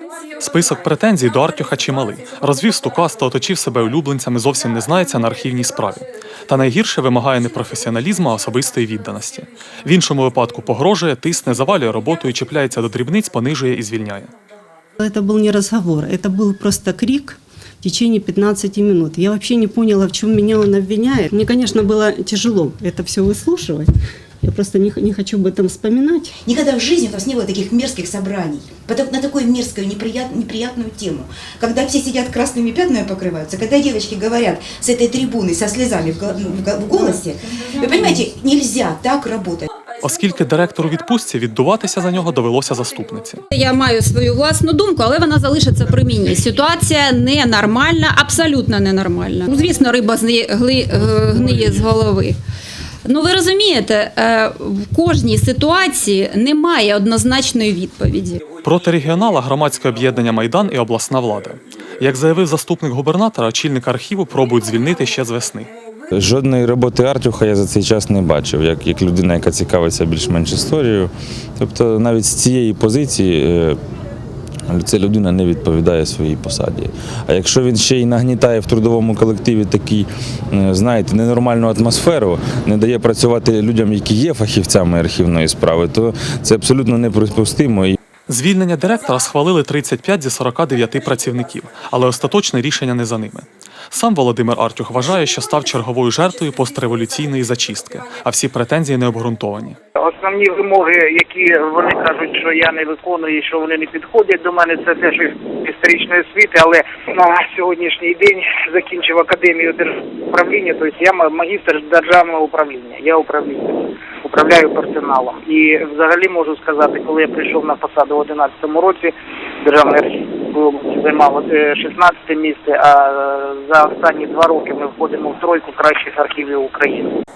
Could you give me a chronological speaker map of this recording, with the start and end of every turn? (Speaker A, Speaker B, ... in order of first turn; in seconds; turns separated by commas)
Speaker A: 0.4-14.3, Speaker B: 15.0-23.9, Speaker B: 24.4-26.3, Speaker C: 26.4-39.6, Speaker A: 40.0-43.4, Speaker D: 43.5-52.4, Speaker D: 53.0-58.4, Speaker A: 58.6-65.7, Speaker E: 66.2-73.8, Speaker E: 74.7-88.0, Speaker A: 88.3-99.8, Speaker F: 100.0-127.1